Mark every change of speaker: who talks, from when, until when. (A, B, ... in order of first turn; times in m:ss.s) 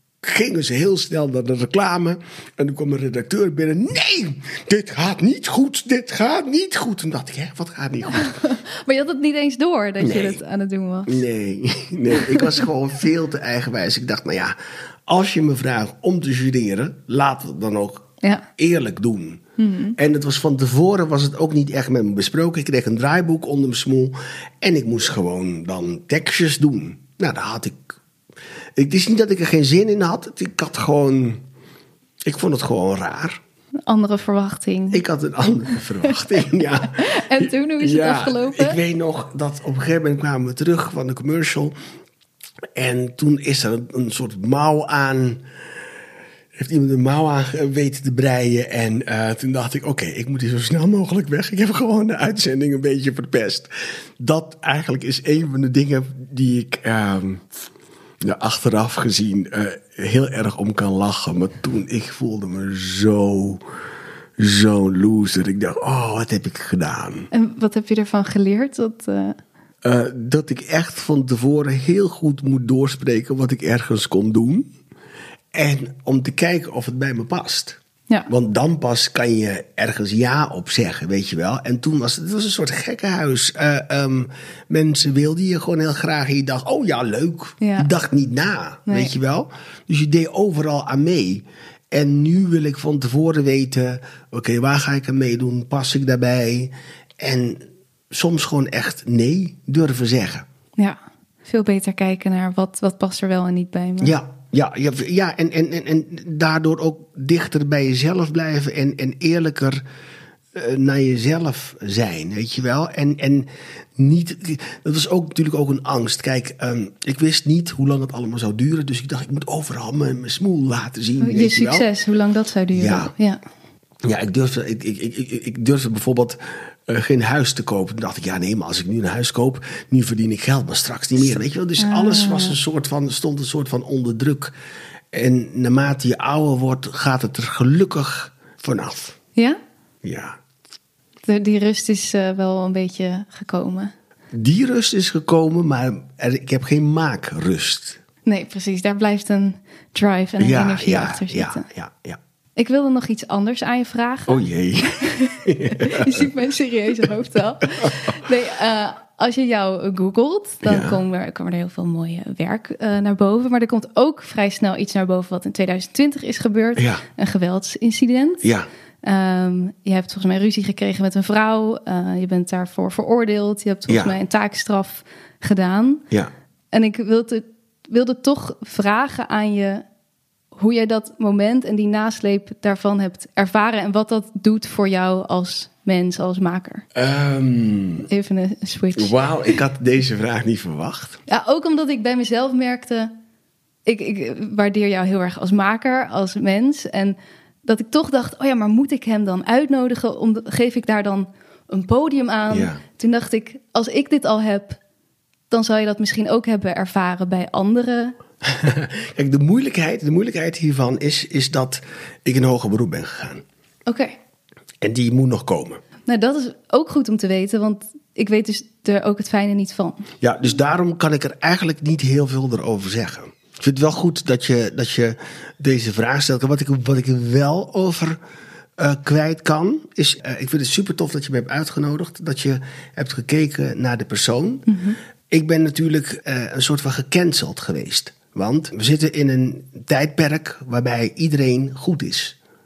0:00.2-0:08.3 A
0:08.1-0:11.2 B
0:10.0-0:10.4 A
0:11.0-0:14.6 A
0:12.2-0:12.5 B
0:15.1-0:19.4 A
0:19.6-0:20.0 B
0:20.0-0:28.0 A
0:28.8-0:31.4 A
0:32.2-0:33.4 A
0:33.8-0:35.0 B
0:34.9-0:41.7 A
0:36.9-0:38.8 B
0:42.8-0:45.4 A
0:46.6-0:57.4 A
0:58.2-1:03.6 A
1:04.4-1:07.3 A
1:07.3-1:09.4 B
1:09.8-1:14.7 A
1:15.5-1:40.4 A
1:27.6-1:27.9 B
1:28.9-1:29.1 B
1:40.8-1:44.2 B
1:44.0-1:49.8 A
1:50.5-2:01.8 A
2:01.2-2:03.4 B
2:02.7-2:03.1 A
2:04.0-2:14.5 A
2:11.8-2:12.6 B
2:15.1-2:19.2 A
2:20.0-2:20.4 A
2:21.2-2:23.9 B
2:24.3-2:28.0 A
2:28.2-2:31.6 B
2:30.4-2:32.2 A
2:32.6-2:48.4 B
2:34.3-2:36.2 A
2:40.6-2:41.0 A
2:46.8-2:47.0 A
2:48.4-2:48.7 A
2:49.0-2:56.0 B
2:53.9-2:54.2 A
2:56.7-2:59.8 B
3:00.5-3:06.8 B
3:06.9-3:08.1 A
3:08.1-3:09.1 B
3:08.9-3:11.2 A
3:11.3-3:13.1 B
3:13.8-3:24.8 B
3:22.5-3:22.8 A
3:25.5-3:28.2 B
3:28.4-3:33.4 A
3:33.9-3:34.2 B
3:34.8-3:35.8 A
3:36.0-3:40.1 B
3:40.2-3:48.2 A
3:48.8-3:54.8 A
3:54.7-3:55.0 B
3:55.3-4:02.4 A